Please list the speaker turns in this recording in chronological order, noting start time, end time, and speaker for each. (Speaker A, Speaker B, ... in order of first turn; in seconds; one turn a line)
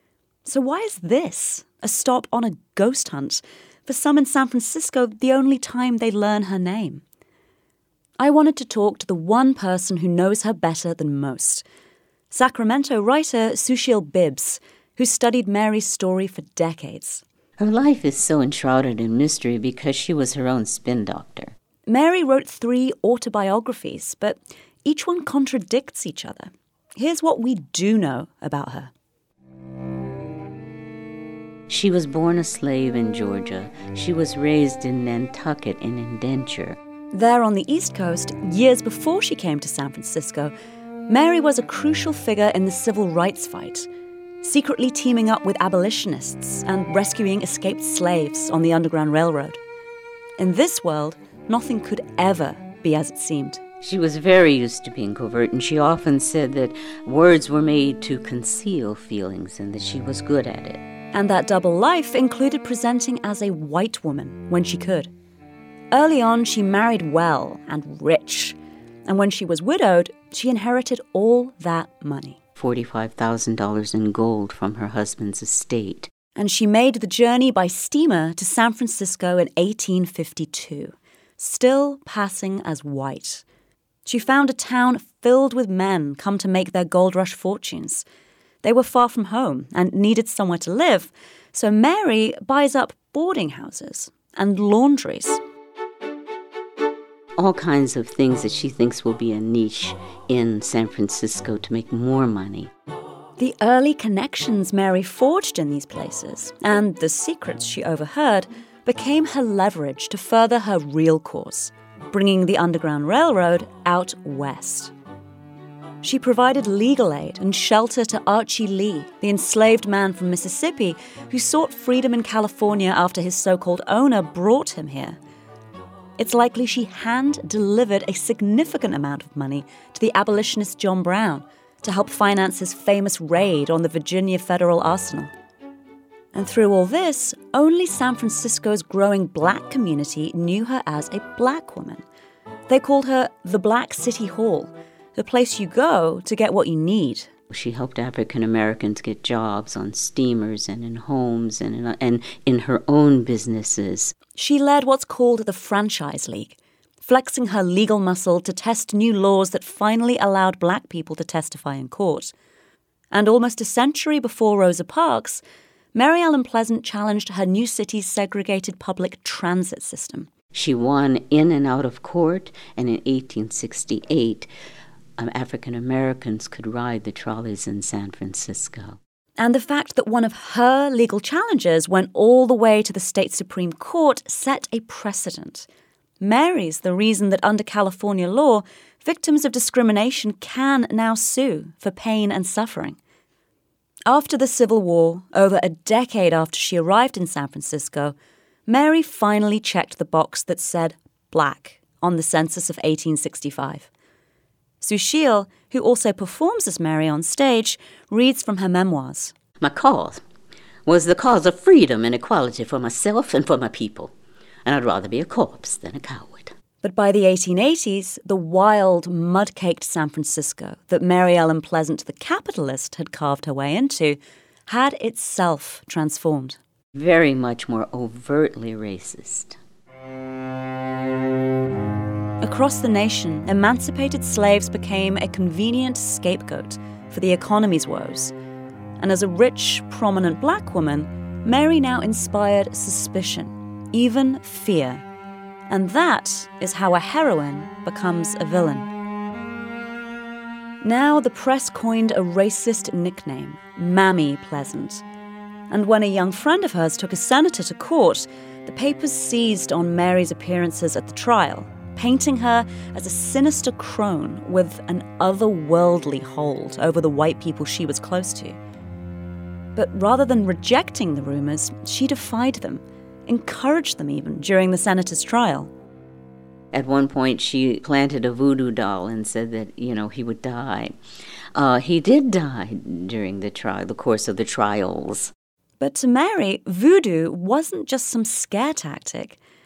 Speaker A: 0.5-7.0
Speaker A: 8.2-11.6
Speaker A: 12.3-17.2
Speaker B: 17.6-21.6
Speaker A: 21.9-28.9
Speaker B: 31.7-36.8
Speaker A: 37.1-40.5
Speaker A: 41.1-43.9
Speaker A: 44.4-49.6
Speaker A: 50.4-53.6
Speaker B: 53.8-60.8
Speaker A: 61.1-65.1
Speaker A: 65.9-72.4
Speaker B: 72.6-76.1
Speaker A: 76.3-83.4
Speaker A: 84.1-88.0
Speaker A: 88.6-95.4
Speaker B: 97.4-102.7
Speaker A: 103.4-114.9
Speaker A: 116.0-125.2
Speaker A: 126.2-135.3
Speaker A: 136.3-142.0
Speaker A: 142.7-147.3
Speaker B: 147.5-154.1
Speaker A: 154.3-162.3
Speaker A: 163.1-165.4
Speaker A: 165.9-170.3
Speaker B: 170.5-174.5
Speaker B: 175.2-179.0
Speaker A: 179.4-185.7
Speaker A: 186.2-193.0
Speaker A: 194.1-198.1
Speaker A: 198.7-203.9
Speaker A: 204.8-209.3
Speaker B: 209.6-210.2
Speaker B: 210.8-214.1
Speaker B: 214.6-216.5
Speaker A: 216.8-226.6
Speaker B: 226.9-229.6
Speaker A: 232.4-238.3
Speaker A: 239.0-245.0
Speaker A: 245.7-248.9
Speaker A: 250.8-255.0
Speaker A: 255.7-268.6
Speaker A: 269.8-275.7
Speaker B: 276.7-281.0
Speaker B: 281.6-285.3
Speaker A: 285.8-289.4